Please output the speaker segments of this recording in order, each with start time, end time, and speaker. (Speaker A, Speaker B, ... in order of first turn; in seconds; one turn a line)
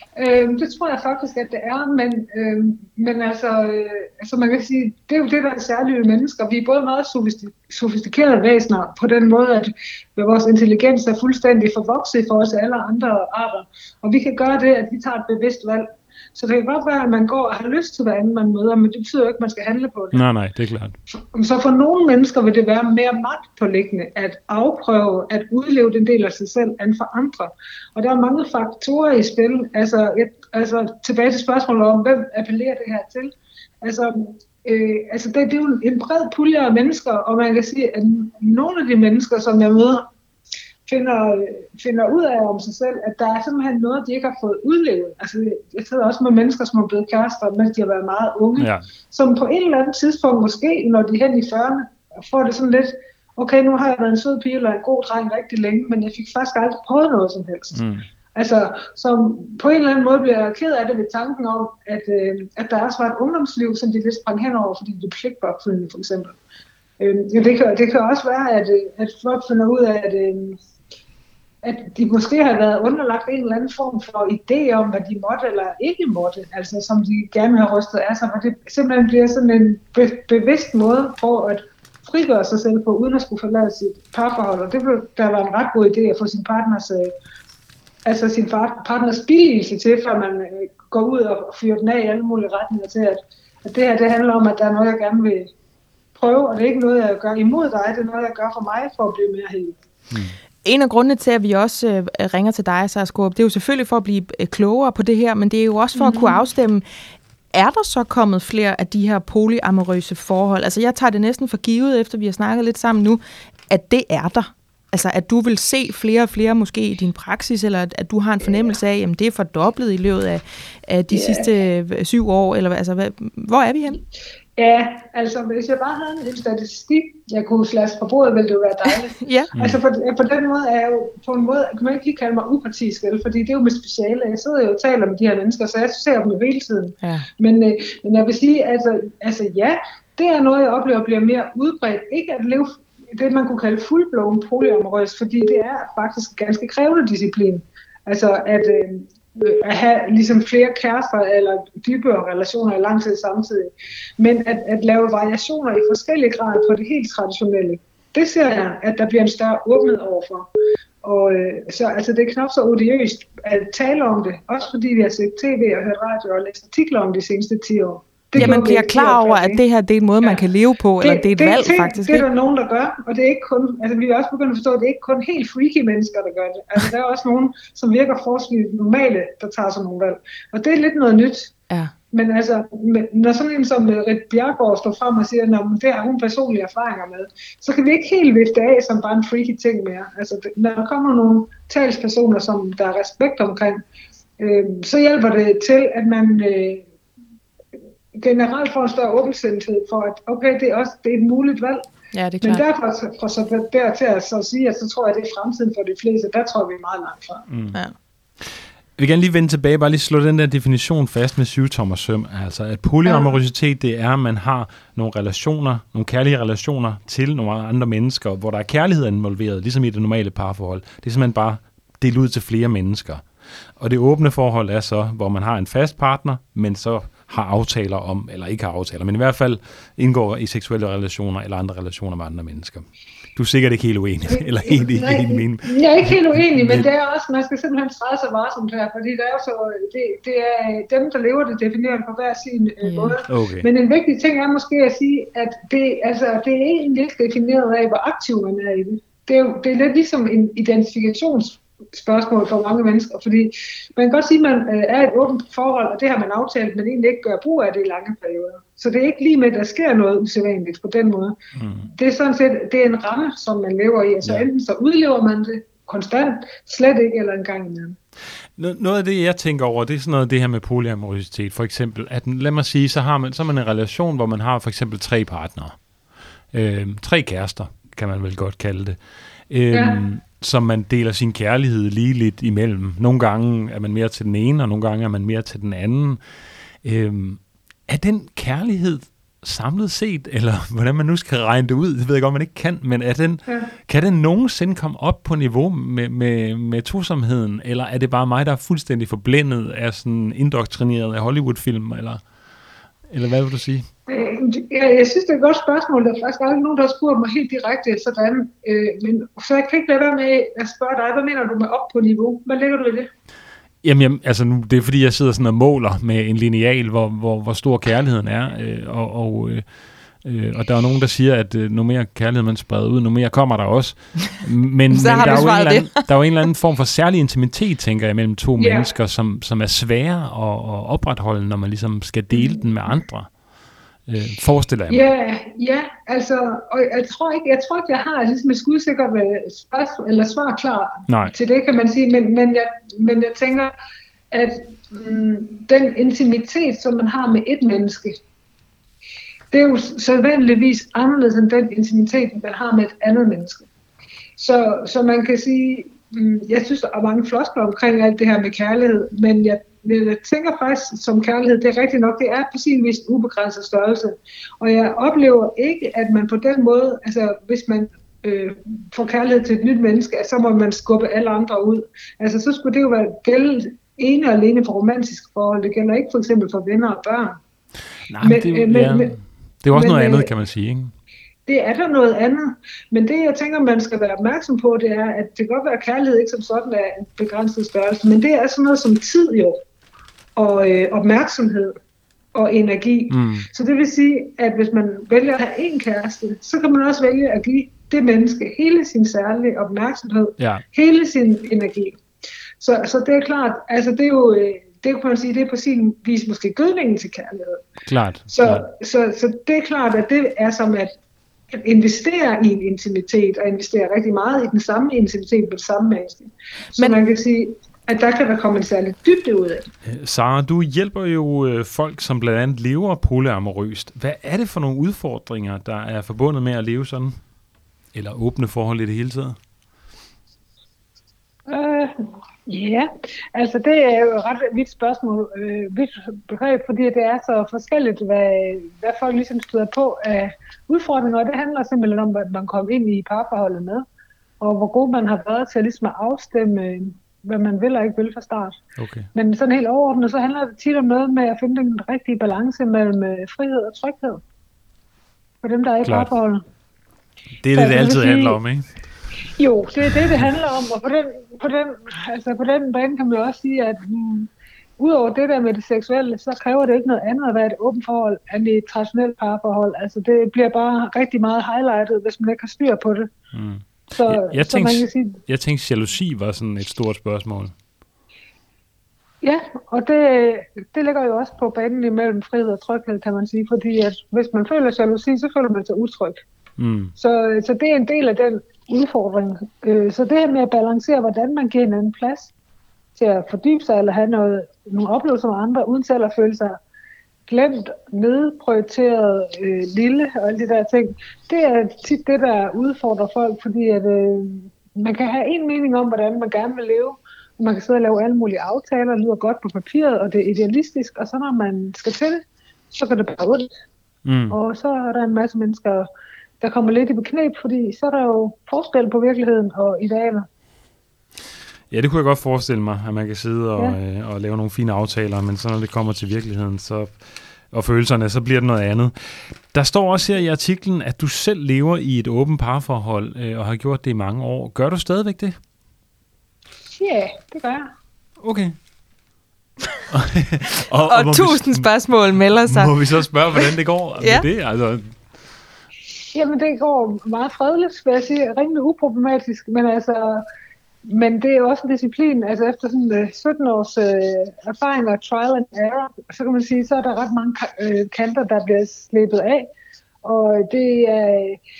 Speaker A: 0.2-20.2
Speaker B: 20.1-20.9
Speaker A: 21.1-40.1
Speaker A: 40.9-57.8
Speaker B: 48.6-48.8
Speaker B: 57.7-58.0
Speaker A: 58.3-66.4
Speaker A: 67.0-70.6
Speaker A: 71.6-87.1
Speaker A: 88.0-95.5
Speaker A: 96.2-99.8
Speaker B: 100.1-100.3
Speaker C: 100.6-106.8
Speaker A: 105.9-106.4
Speaker C: 107.5-124.0
Speaker A: 121.1-121.5
Speaker A: 124.6-160.5
Speaker C: 129.2-129.5
Speaker B: 129.5-129.8
Speaker A: 161.0-169.6
Speaker C: 168.3-172.2
Speaker A: 171.0-181.5
Speaker A: 182.1-193.8
Speaker A: 194.4-196.8
Speaker A: 198.1-201.8
Speaker C: 202.1-202.6
Speaker A: 202.4-207.4
Speaker B: 207.5-207.8
Speaker B: 208.4-223.2
Speaker B: 223.8-236.9
Speaker A: 234.3-268.0
Speaker C: 242.8-243.2
Speaker B: 243.3-243.7
Speaker B: 261.6-261.9
Speaker B: 268.6-275.8
Speaker B: 276.5-279.0
Speaker B: 279.5-286.2
Speaker A: 279.7-280.0
Speaker B: 286.8-302.2
Speaker B: 303.1-303.9
Speaker A: 304.1-313.1
Speaker B: 313.8-319.6
Speaker B: 320.2-333.3
Speaker C: 324.9-326.0
Speaker A: 325.1-325.4
Speaker A: 328.6-328.9
Speaker A: 332.3-332.6
Speaker B: 334.1-335.0
Speaker A: 334.9-343.7
Speaker B: 341.1-341.3
Speaker A: 344.3-348.2
Speaker A: 349.5-353.6
Speaker A: 354.4-377.4
Speaker B: 378.1-380.9
Speaker A: 378.2-379.1
Speaker A: 379.7-380.3
Speaker A: 381.4-389.6
Speaker A: 390.4-391.8
Speaker A: 392.3-402.0
Speaker B: 393.1-393.5
Speaker B: 400.4-400.6
Speaker A: 402.6-407.6
Speaker B: 407.9-408.7
Speaker A: 408.3-410.9
Speaker A: 411.5-419.7
Speaker B: 419.8-427.2
Speaker B: 427.9-429.4
Speaker A: 431.5-431.9
Speaker A: 432.4-443.9
Speaker A: 444.4-448.6
Speaker B: 448.8-449.1
Speaker A: 449.1-454.2
Speaker A: 455.4-456.4
Speaker B: 455.8-456.1
Speaker B: 457.4-458.6
Speaker A: 457.5-458.4
Speaker A: 459.4-473.1
Speaker B: 473.3-477.5
Speaker A: 473.9-475.2
Speaker A: 479.2-486.2
Speaker B: 486.6-486.9
Speaker A: 487.0-492.3
Speaker A: 492.9-496.6
Speaker A: 497.3-513.5
Speaker B: 514.0-514.4
Speaker A: 514.3-515.9
Speaker A: 516.4-520.3
Speaker B: 521.7-527.0
Speaker B: 527.5-535.4
Speaker A: 536.7-537.7
Speaker B: 538.2-538.6
Speaker B: 539.9-545.0
Speaker C: 540.9-542.7
Speaker C: 544.0-544.2
Speaker A: 546.1-550.2
Speaker A: 550.9-559.5
Speaker A: 560.0-561.4